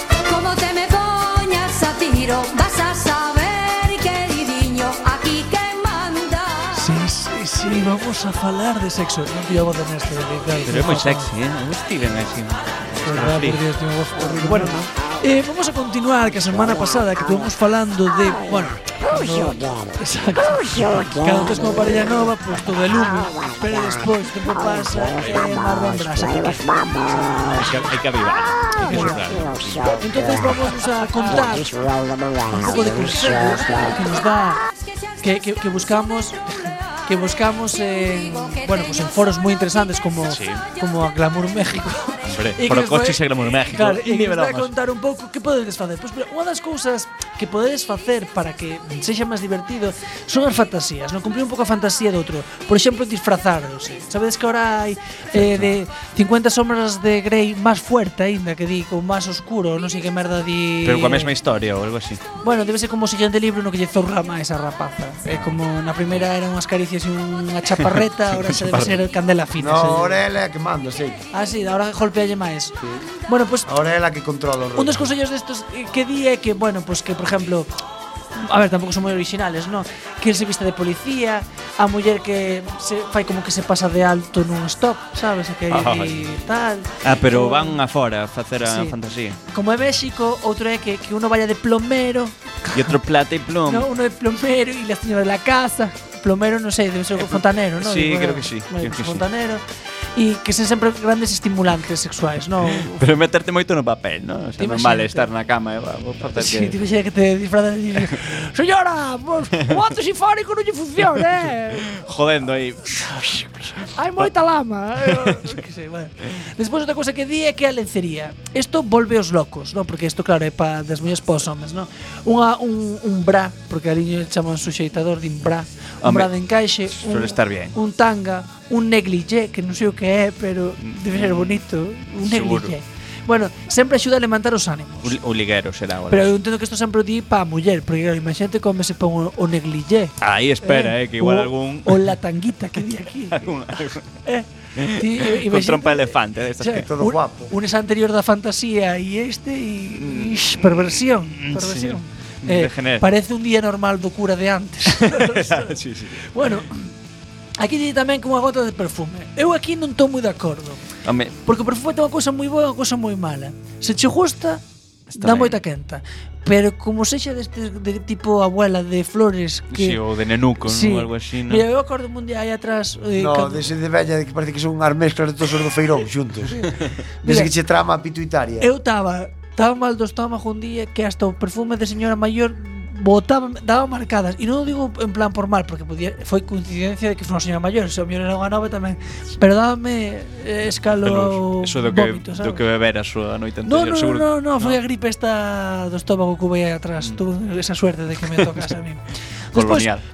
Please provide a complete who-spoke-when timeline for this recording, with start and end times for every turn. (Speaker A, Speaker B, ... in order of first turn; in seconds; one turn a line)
Speaker A: 0.2-6.9
Speaker B: 6.7-11.3
Speaker C: 10.6-13.6
Speaker B: 13.1-27.8
Speaker C: 14.4-14.8
Speaker C: 25.2-25.5
Speaker C: 27.5-30.0
Speaker B: 28.8-29.4
Speaker B: 30.0-31.7
Speaker B: 32.5-34.6
Speaker B: 35.2-61.3
Speaker A: 37.3-39.4
Speaker C: 40.3-40.6
Speaker C: 42.2-44.7
Speaker C: 60.8-62.2
Speaker B: 62.4-70.2
Speaker C: 68.3-68.9
Speaker D: 69.6-71.2
Speaker B: 71.3-72.8
Speaker B: 73.3-73.7
Speaker D: 73.7-75.0
Speaker B: 74.7-77.8
Speaker B: 78.3-87.8
Speaker C: 85.7-86.2
Speaker C: 87.0-89.4
Speaker B: 88.6-89.0
Speaker B: 89.5-92.9
Speaker C: 92.7-93.9
Speaker B: 93.7-99.6
Speaker C: 97.2-99.2
Speaker B: 100.2-103.0
Speaker C: 102.8-106.8
Speaker B: 104.6-105.3
Speaker B: 106.3-111.9
Speaker C: 111.7-114.3
Speaker B: 114.0-135.2
Speaker C: 126.0-126.3
Speaker C: 126.9-127.7
Speaker C: 130.9-131.6
Speaker C: 132.2-132.7
Speaker C: 135.0-136.3
Speaker B: 136.1-143.7
Speaker C: 140.2-142.1
Speaker C: 143.3-144.0
Speaker B: 144.2-155.7
Speaker C: 144.8-146.9
Speaker D: 146.7-147.5
Speaker C: 150.0-153.0
Speaker C: 154.9-156.2
Speaker B: 156.3-156.9
Speaker B: 157.6-160.8
Speaker C: 161.0-161.3
Speaker B: 161.4-170.0
Speaker C: 165.2-165.6
Speaker C: 169.7-171.6
Speaker B: 170.6-173.7
Speaker D: 173.1-176.6
Speaker D: 177.2-178.7
Speaker B: 177.2-177.5
Speaker B: 178.6-192.6
Speaker C: 191.0-194.8
Speaker B: 193.6-199.9
Speaker C: 199.5-200.0